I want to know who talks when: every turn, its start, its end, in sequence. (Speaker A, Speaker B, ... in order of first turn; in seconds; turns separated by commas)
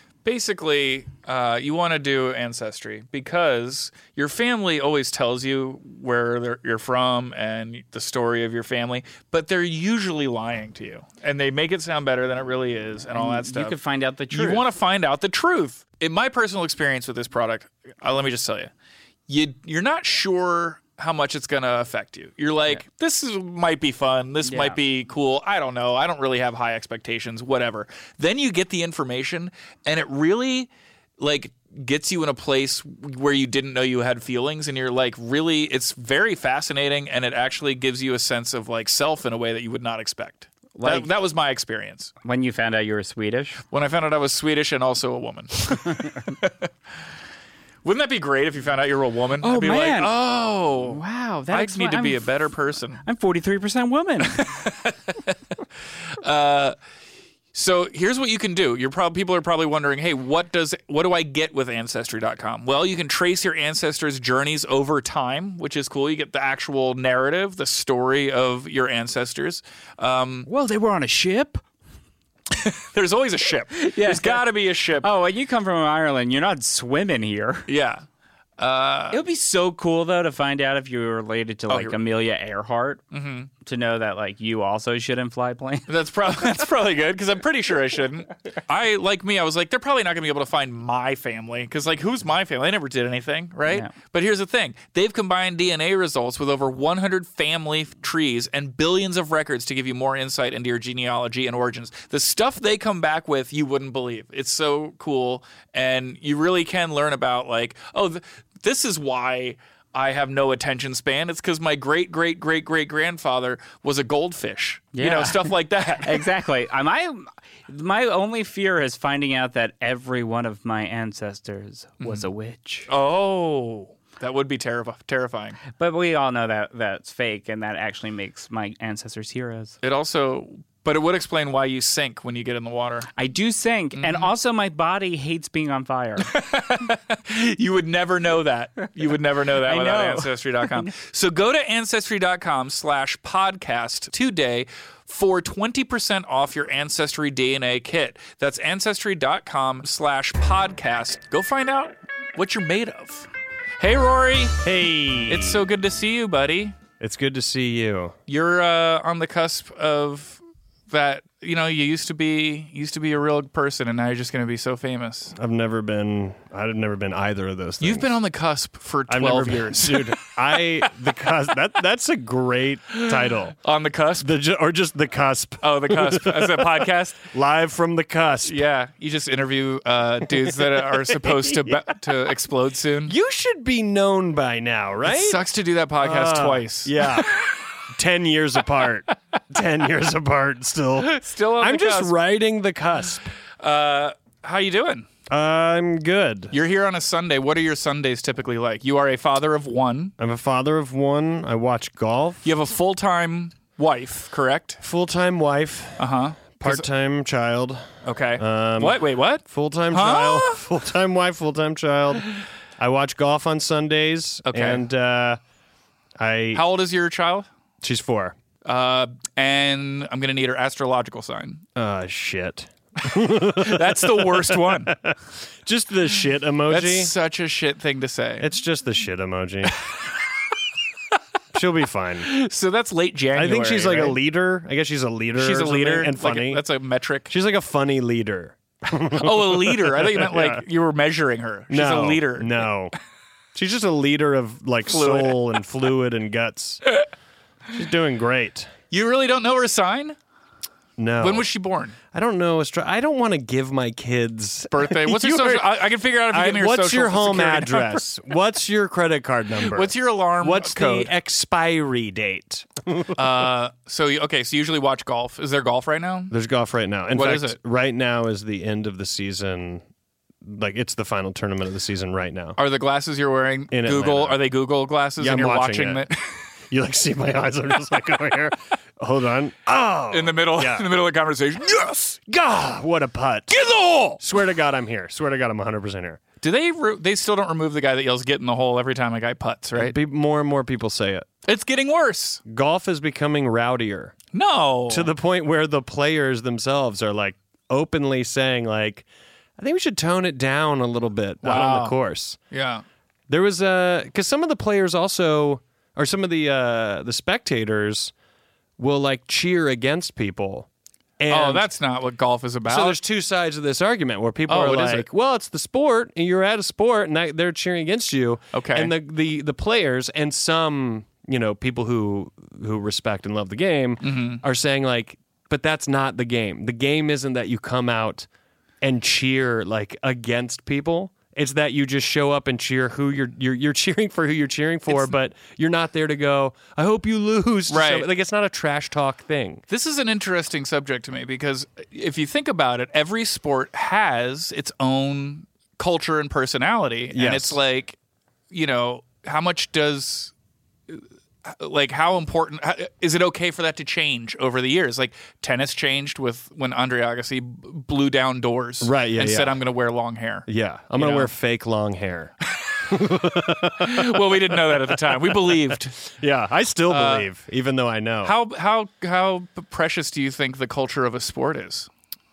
Speaker A: 0.2-13.8, Speaker B: 13.2-14.6, Speaker A: 14.3-18.7, Speaker A: 19.3-42.1, Speaker B: 24.4-24.8, Speaker B: 40.8-41.1, Speaker B: 42.2-43.6, Speaker A: 43.7-46.7, Speaker A: 47.8-53.0, Speaker B: 49.4-50.2, Speaker B: 50.8-52.3, Speaker B: 53.0-54.5, Speaker A: 54.3-55.4, Speaker A: 56.1-56.8, Speaker A: 57.5-70.5, Speaker B: 70.5-71.6, Speaker A: 72.5-75.1, Speaker B: 73.8-74.5, Speaker B: 75.0-77.7, Speaker A: 77.7-78.0, Speaker A: 78.6-79.2, Speaker B: 79.1-83.0, Speaker A: 81.7-82.0, Speaker A: 83.1-83.5, Speaker B: 83.6-85.9, Speaker A: 85.9-116.2, Speaker B: 93.7-93.9, Speaker B: 114.9-122.9, Speaker A: 122.9-125.6, Speaker B: 125.7-129.8, Speaker A: 129.8-133.1, Speaker B: 133.2-136.3, Speaker A: 134.0-134.3, Speaker A: 136.2-153.3, Speaker B: 139.6-140.9, Speaker A: 153.8-154.6, Speaker C: 154.6-155.6, Speaker A: 155.3-156.8, Speaker C: 157.0-158.1, Speaker A: 158.3-165.3, Speaker C: 165.4-168.2, Speaker A: 167.8-170.2, Speaker C: 169.1-173.6, Speaker A: 172.9-174.3, Speaker C: 174.2-178.6, Speaker A: 175.6-177.3, Speaker A: 178.4-183.1, Speaker C: 180.4-181.8, Speaker C: 183.0-185.4, Speaker A: 185.1-187.3, Speaker C: 186.0-193.3, Speaker A: 191.0-192.1, Speaker A: 193.6-195.1, Speaker C: 195.3-196.5, Speaker A: 196.5-200.1, Speaker C: 200.2-202.4, Speaker A: 202.4-204.8, Speaker C: 204.8-206.1, Speaker A: 206.0-206.8, Speaker C: 206.6-212.2, Speaker A: 208.0-210.6, Speaker C: 212.8-215.4, Speaker A: 214.5-214.8, Speaker C: 216.2-216.6, Speaker A: 216.5-217.5, Speaker C: 217.8-218.4, Speaker A: 218.6-221.6, Speaker C: 221.8-227.1, Speaker A: 223.1-224.9, Speaker A: 226.7-228.5, Speaker C: 228.4-229.8, Speaker C: 231.5-232.3, Speaker A: 232.2-234.2, Speaker C: 233.3-236.6, Speaker A: 235.4-237.3, Speaker C: 237.3-240.6, Speaker A: 239.1-242.7, Speaker C: 241.7-242.9, Speaker C: 243.5-246.8, Speaker A: 244.9-245.4, Speaker C: 247.7-248.7, Speaker A: 248.9-250.2, Speaker C: 251.0-251.5, Speaker A: 251.2-252.0, Speaker C: 252.1-263.2, Speaker A: 254.7-258.0, Speaker A: 259.6-261.1, Speaker A: 263.1-266.3, Speaker C: 266.3-269.8, Speaker A: 267.1-267.6, Speaker C: 270.4-272.6, Speaker A: 272.6-276.4, Speaker C: 273.7-274.4, Speaker C: 275.2-276.0, Speaker C: 276.7-280.9, Speaker A: 280.1-282.1, Speaker C: 282.1-286.2, Speaker A: 283.6-284.2, Speaker A: 286.4-290.0, Speaker C: 289.8-291.3, Speaker A: 291.5-292.4, Speaker C: 292.5-294.1, Speaker A: 294.3-295.1, Speaker C: 294.9-299.1, Speaker C: 299.6-302.4, Speaker A: 301.4-302.0, Speaker A: 302.5-302.8, Speaker C: 303.3-308.1, Speaker C: 308.8-310.7, Speaker C: 311.2-311.6, Speaker A: 311.3-313.0, Speaker C: 312.6-328.3, Speaker A: 314.5-315.0, Speaker A: 318.5-318.9, Speaker A: 324.0-324.4, Speaker C: 328.8-339.6, Speaker A: 334.9-335.1, Speaker A: 337.7-338.1, Speaker A: 339.7-348.0, Speaker C: 347.1-347.6, Speaker A: 348.5-350.3, Speaker A: 350.9-361.3, Speaker C: 358.8-359.6, Speaker C: 360.5-368.3, Speaker A: 363.8-366.0, Speaker A: 366.9-367.3, Speaker A: 368.2-371.9